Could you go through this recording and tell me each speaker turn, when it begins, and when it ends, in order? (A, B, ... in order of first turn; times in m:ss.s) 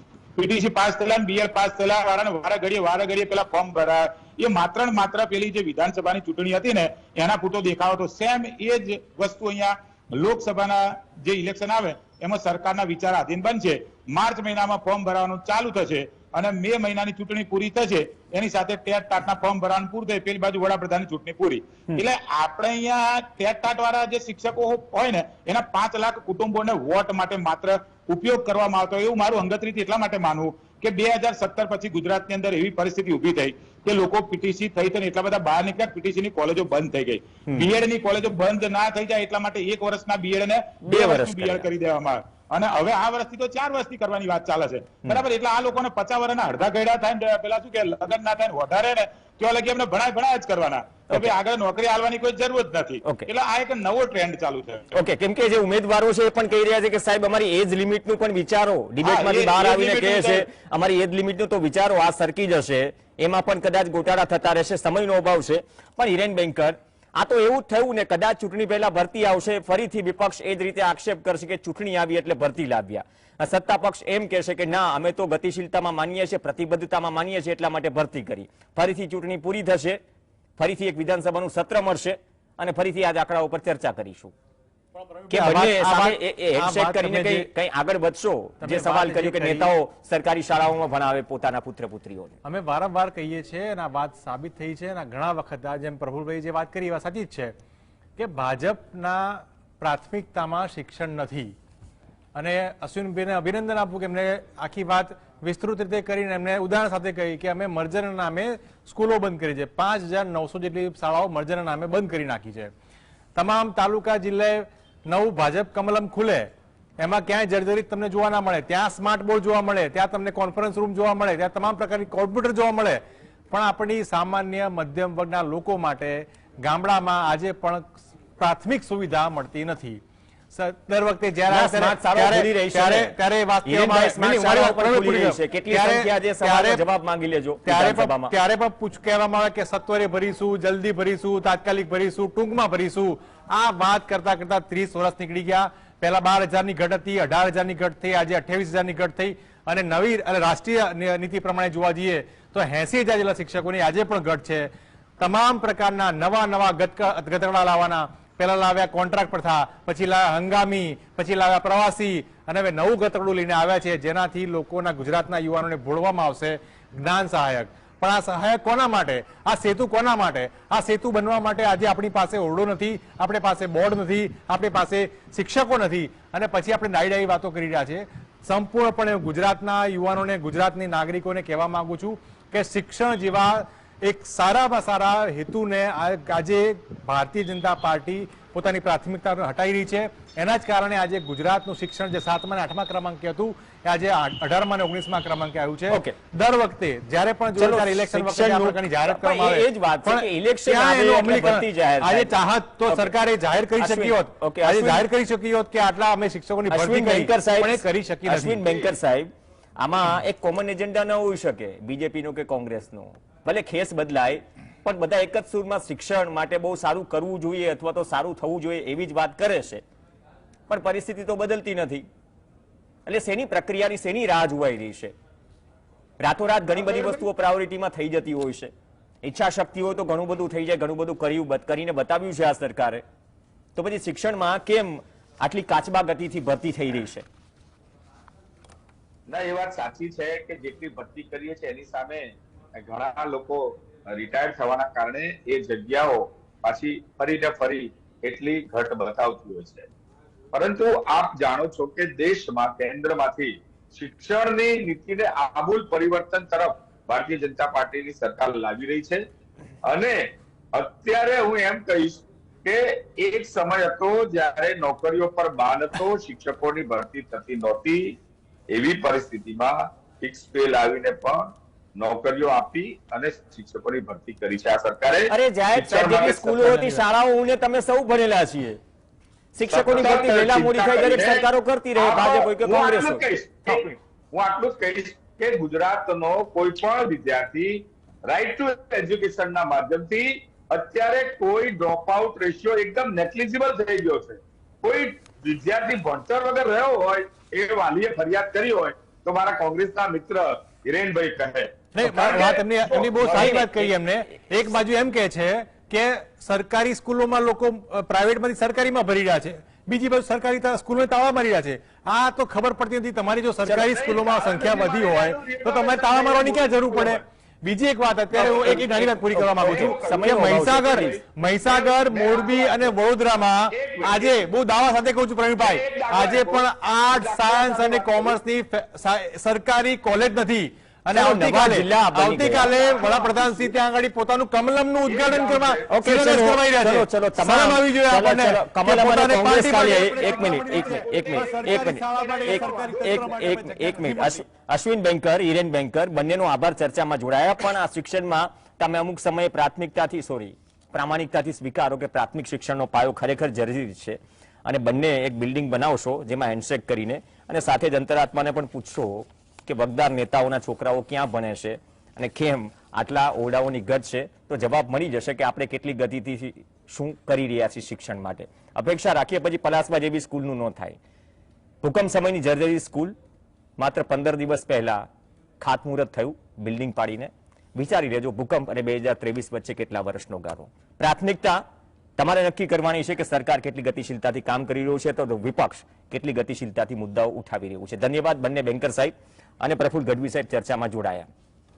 0:00.4-0:54.9 A
0:40.8-0:41.7 B
0:54.9-1:20.0 B
0:59.0-1:00.5 A
1:20.6-1:24.3 B
1:25.0-1:27.5 C
1:25.3-1:32.4 B
1:28.6-1:29.7 C
1:32.4-1:37.6 C
1:38.2-1:41.6 C
1:42.4-1:52.7 C
1:53.4-2:10.0 C
2:10.5-2:16.8 C
2:11.5-2:18.4 B
2:17.6-3:28.8 C
3:15.9-3:16.2 B
3:17.6-3:23.1 B
3:23.8-3:25.1 B
3:26.7-3:39.8 B
3:40.7-3:42.0 B
3:43.1-3:45.1 B
3:46.2-3:53.0 B
3:53.8-3:57.2 B
3:59.3-4:09.9 D
4:10.5-4:19.2 D
4:19.8-4:28.2 D
4:28.7-4:36.9 D
4:35.3-4:38.8 B
4:39.6-4:43.9 B
4:39.7-4:41.4 D
4:42.0-5:03.7 D
5:01.9-5:44.4 C
5:03.3-5:03.9 B
5:13.6-5:17.2 D
5:18.3-5:22.9 D
5:19.3-5:21.2 B
5:23.7-5:24.4 D
5:25.6-5:28.4 D
5:31.1-5:32.8 B
5:32.6-5:33.7 D
5:35.1-5:35.9 D
5:35.9-6:11.0 B
5:39.7-5:43.4 D
6:11.8-6:13.2 B
6:13.8-6:15.1 B
6:15.6-6:21.6 B
6:22.2-6:31.3 B